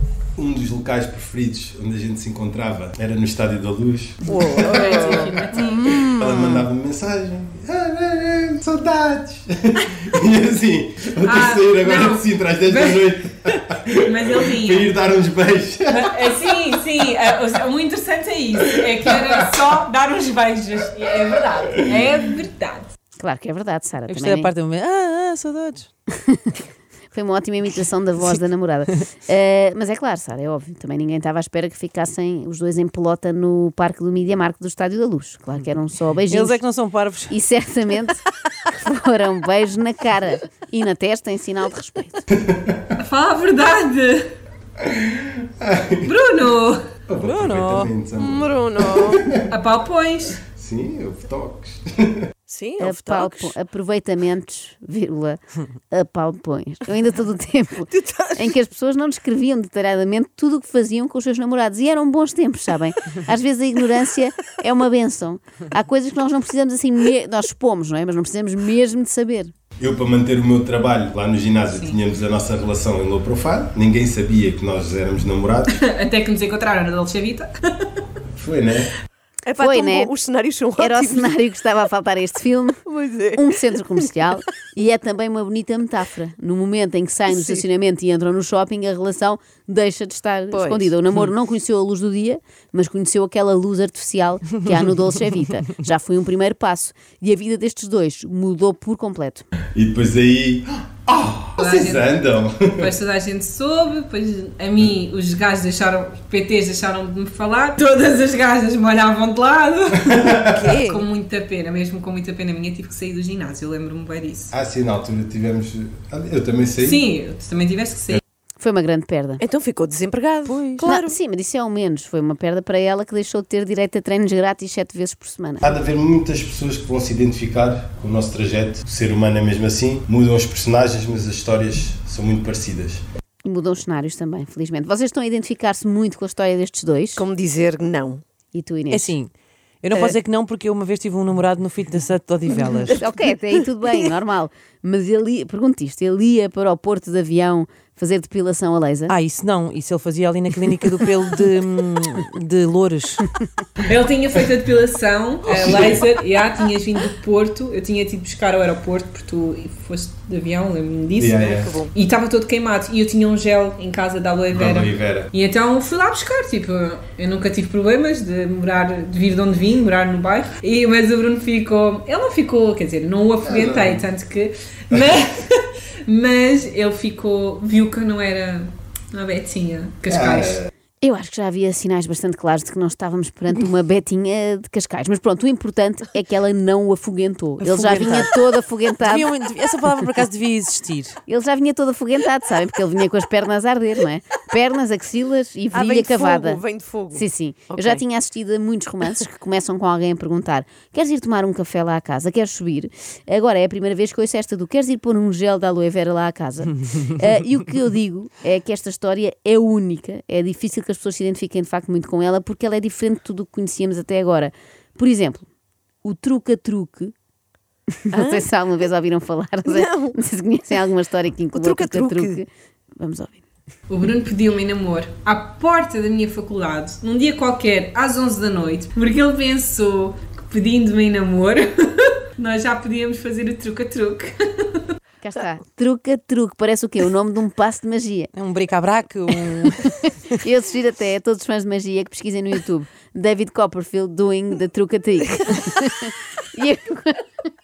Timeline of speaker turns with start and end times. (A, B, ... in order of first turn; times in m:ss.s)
0:00.4-0:16.5 A
0:04.3-0:06.7 B
0:04.6-0:05.9 C
0:11.2-0:13.5 C
0:14.0-0:14.9 C
0:15.9-0:22.9 C
0:21.7-0:22.1 A
0:23.2-0:24.5 D
0:24.1-0:25.9 E
0:26.2-0:26.5 D
0:27.1-0:36.6 D
0:36.3-0:37.4 E
0:37.3-0:42.2 D
0:42.4-0:42.8 A
0:43.0-0:44.3 C
0:44.8-0:46.1 A
0:46.0-0:46.8 C
0:47.1-0:49.5 A
0:47.2-0:47.9 E
0:48.2-0:49.3 B
0:49.5-0:50.4 C
0:50.5-0:52.2 A
0:52.5-0:53.5 B
0:52.8-0:55.4 D
0:55.9-1:09.5 D
0:57.9-0:58.6 B
1:09.8-1:15.8 A
1:11.7-1:12.0 C
1:15.7-1:17.9 C
1:18.4-1:18.9 A
1:19.5-1:21.4 B
1:19.6-1:20.1 D
1:20.8-1:22.8 D
1:22.9-1:23.6 B
1:23.4-1:39.4 D
1:27.3-1:27.6 B
1:30.5-1:30.9 B
1:39.8-1:42.9 A
1:41.6-1:42.1 C
1:42.8-1:54.5 C
1:50.1-1:50.6 A
1:50.4-1:51.0 B
1:54.5-1:57.0 A
1:56.8-1:58.2 C
1:58.6-1:59.4 D
1:59.4-2:01.1 B
2:00.5-2:00.9 E
2:00.8-2:05.8 D
2:05.6-2:13.0 A
2:13.4-2:17.2 D
2:17.2-2:18.2 B
2:18.5-2:19.2 D
2:18.9-2:19.3 E
2:19.8-2:23.0 E
2:22.5-2:23.0 B
2:22.9-2:29.2 D
2:29.1-2:33.3 E
2:33.8-3:00.6 C
2:35.5-2:36.0 A
2:41.2-2:41.8 A
2:41.5-2:41.9 B
2:44.5-2:45.3 A
2:53.4-2:54.1 A
3:00.1-3:00.7 A
3:01.0-3:09.3 D
3:07.6-3:08.3 E
3:09.0-3:11.2 E
3:11.3-3:16.6 D
3:15.7-3:18.0 B
3:17.1-3:35.5 D
3:36.0-3:37.1 D
3:38.0-3:43.4 D
3:38.1-3:38.4 B
3:39.7-3:40.2 B
3:41.5-3:42.4 B
3:43.9-3:54.8 C
3:55.2-3:58.3 D
3:58.4-4:00.4 E
4:00.4-4:07.2 D